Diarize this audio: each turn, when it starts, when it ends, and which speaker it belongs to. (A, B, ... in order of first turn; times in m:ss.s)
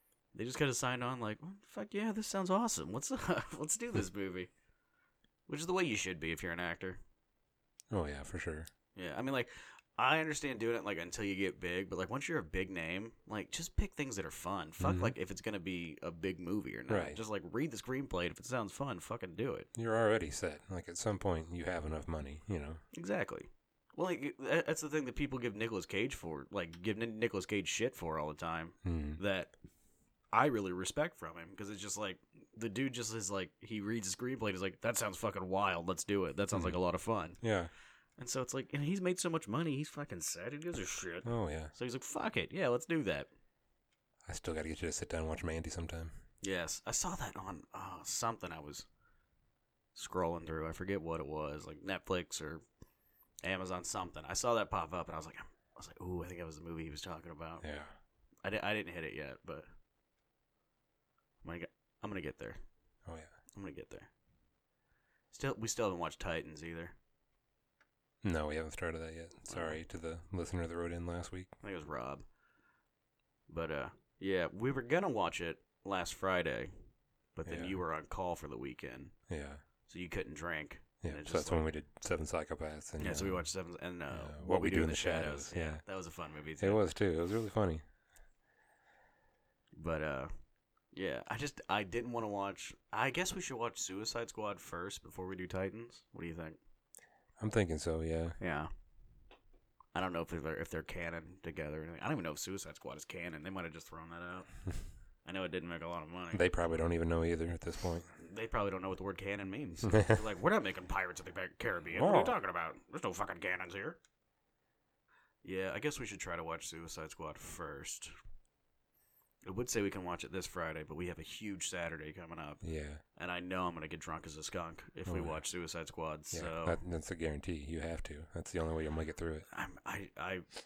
0:00.3-0:04.5 A
0:05.5-0:07.0 A
0:07.9-0:08.7 B
0:09.0-0:19.7 A
0:14.8-0:15.2 B
0:16.9-0:17.2 B
0:19.8-0:22.8 B
0:22.9-0:29.5 A
0:28.8-0:29.2 B
0:30.3-0:37.4 A
0:36.5-0:36.8 B
0:37.4-0:37.7 B
0:38.2-0:43.3 A
0:41.2-0:41.7 B
0:44.3-0:46.1 B
0:46.4-0:48.9 A
0:50.0-0:52.6 A
0:53.4-0:57.6 A
0:57.6-0:57.9 B
0:58.4-0:59.7 A
1:01.4-1:02.6 A
1:03.0-1:03.3 B
1:03.6-1:04.1 A
1:05.3-1:07.0 A
1:08.2-1:11.5 B
1:09.5-1:09.8 A
1:11.6-1:12.2 A
1:13.5-1:16.7 A
1:17.4-1:19.1 A
1:17.5-1:17.8 B
1:19.3-1:19.6 B
1:19.9-1:21.6 A
1:21.0-1:23.4 B
1:23.0-1:26.8 A
1:24.1-1:25.8 B
1:26.6-1:27.8 B
1:29.8-1:30.3 A
1:30.9-1:36.6 A
1:37.4-1:38.4 B
1:38.4-1:38.7 A
1:39.9-1:44.5 A
1:45.2-1:46.5 A
1:46.3-1:48.1 B
1:48.2-1:54.0 A
1:49.9-1:50.2 B
1:52.0-1:52.4 B
1:55.4-1:58.1 A
1:59.4-2:02.6 A
2:02.6-2:03.0 B
2:03.2-2:06.8 A
2:05.1-2:05.4 B
2:06.3-2:09.5 B
2:09.5-2:10.5 A